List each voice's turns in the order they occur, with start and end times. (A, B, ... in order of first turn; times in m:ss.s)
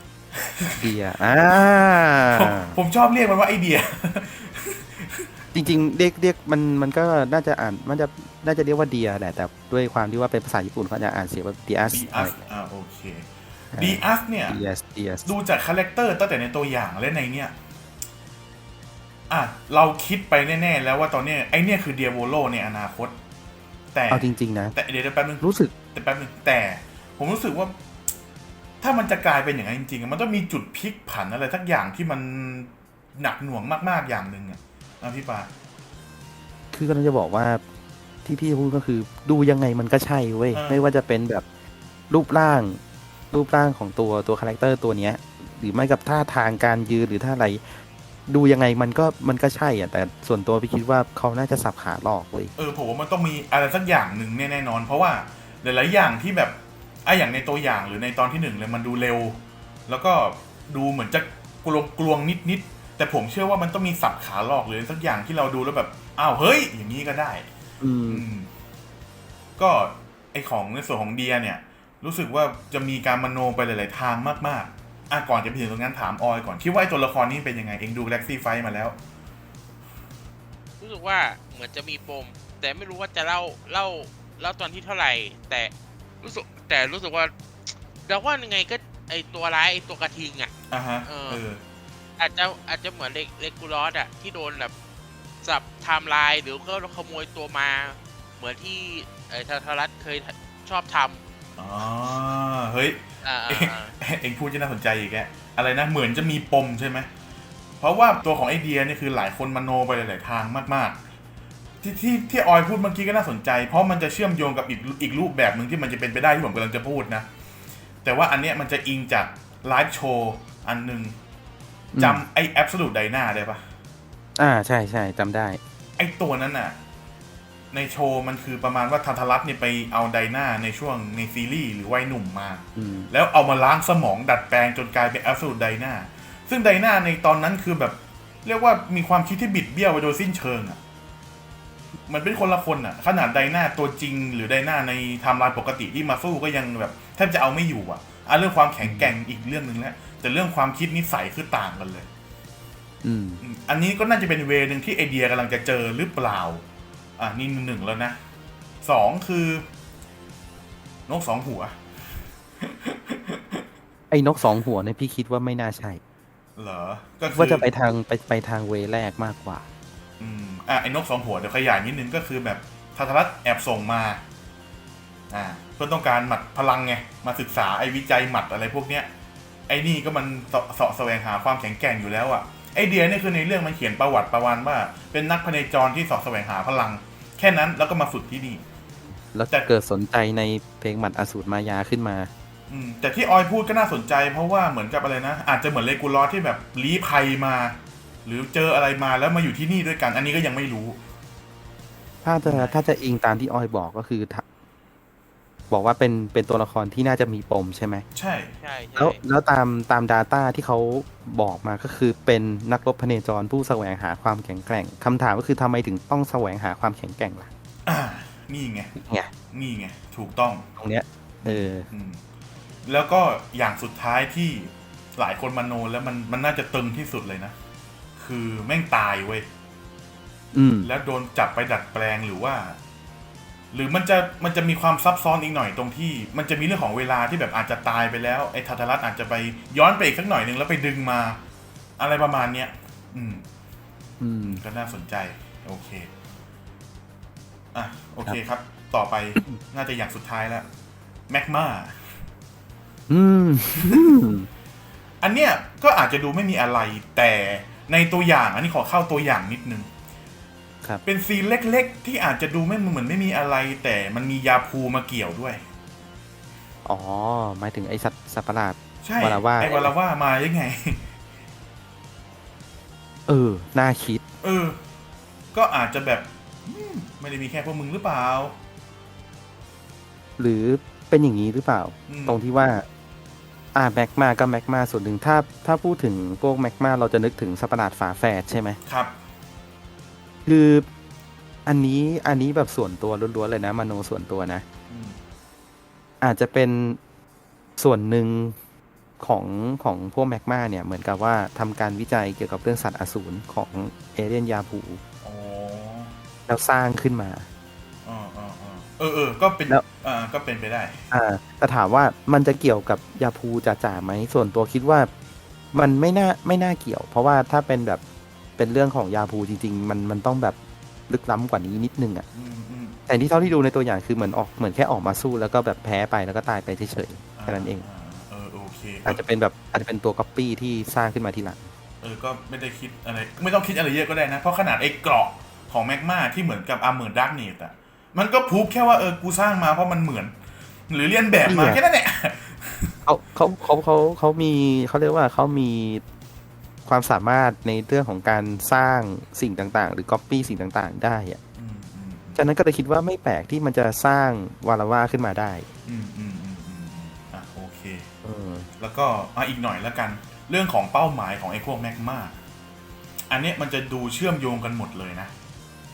0:00.3-0:01.0 A
0:00.8-0:02.8 B
0:02.3-0:05.4 A
0:05.5-0:12.4 B
0:11.9-0:14.6 A
0:13.7-0:15.3 B
0:15.3-0:17.5 A
0:19.3-0:23.2 A
0:23.9-0:27.7 A
0:24.1-0:24.8 B
0:25.4-0:25.7 B
0:28.8-0:35.5 A
0:36.7-0:37.6 B
0:38.2-0:41.4 B
0:40.5-0:40.8 A
0:42.1-0:42.8 B
0:43.3-0:52.5 B
0:52.6-1:07.5 A
1:07.8-1:08.3 B
1:08.1-1:08.5 A
1:09.6-1:19.0 A
1:20.8-1:27.3 C
1:28.1-1:30.5 C
1:30.7-1:31.6 A
1:31.1-1:31.4 C
1:32.2-1:34.7 C
1:35.4-1:41.2 C
1:41.6-1:47.1 A
1:43.2-1:43.9 C
1:47.8-1:51.0 A
1:51.8-1:57.3 A
1:58.0-2:01.2 A
2:02.0-2:02.2 B
2:02.0-2:03.7 A
2:04.4-2:05.6 B
2:06.0-2:06.8 A
2:07.7-2:20.8 A
2:12.8-2:13.1 B
2:22.1-2:32.1 A
2:28.8-2:29.1 B
2:33.0-2:33.4 B
2:33.4-2:36.6 A
2:37.2-2:38.2 A
2:38.8-2:39.6 A
2:41.1-2:41.8 A
2:42.6-2:43.6 A
2:44.1-2:46.0 B
2:46.6-2:47.7 A
2:47.3-2:49.6 B
2:50.2-2:54.2 A
2:55.3-2:59.1 A
2:59.7-3:08.6 A
3:09.3-3:12.3 B
3:12.7-3:21.0 A
3:22.2-3:24.4 B
3:22.4-3:22.8 A
3:25.7-3:28.0 B
3:28.2-3:28.5 A
3:28.6-3:29.2 C
3:29.0-3:37.5 B
3:37.9-3:38.9 A
3:39.0-3:39.3 B
3:39.5-3:40.7 A
3:40.8-3:41.9 B
3:41.4-3:42.2 A
3:42.9-3:47.6 A
3:48.2-3:49.5 A
3:50.5-3:50.9 B
3:50.8-3:52.8 A
3:53.7-4:01.4 A
4:02.0-4:03.4 A
4:04.2-4:04.6 B
4:04.4-4:06.1 A
4:07.7-4:10.7 A
4:11.3-4:12.2 A
4:13.1-4:14.5 B
4:13.8-4:14.1 A
4:15.2-4:19.9 A
4:21.0-4:25.6 A
4:26.8-4:29.9 B
4:29.0-4:31.1 A
4:33.3-4:34.2 B
4:34.4-4:34.8 A
4:35.5-4:38.6 A
4:40.4-4:42.9 B
4:42.1-4:42.4 A
4:43.8-4:48.8 B
4:48.9-4:49.1 A
4:50.5-4:50.9 B
4:51.7-4:54.6 B
4:54.9-4:55.2 A
4:56.2-4:57.0 B
4:57.8-4:58.6 B
4:59.2-5:05.0 B
5:05.2-5:06.2 A
5:06.5-5:07.5 B
5:08.0-5:11.0 A
5:11.1-5:15.1 B
5:15.7-5:18.0 B
5:18.6-5:20.6 B
5:21.1-5:22.3 B
5:22.3-5:23.0 A
5:23.1-5:27.8 B
5:27.4-5:29.2 A
5:29.1-5:31.7 B
5:32.0-5:40.3 A
5:40.9-5:43.0 A
5:41.4-5:41.8 B
5:43.1-5:46.0 B
5:46.9-5:51.4 B
5:51.6-5:52.4 A
5:52.4-5:55.7 B
5:55.9-5:58.1 A
5:58.2-5:58.7 B
5:58.8-6:02.4 A
6:03.3-6:05.3 A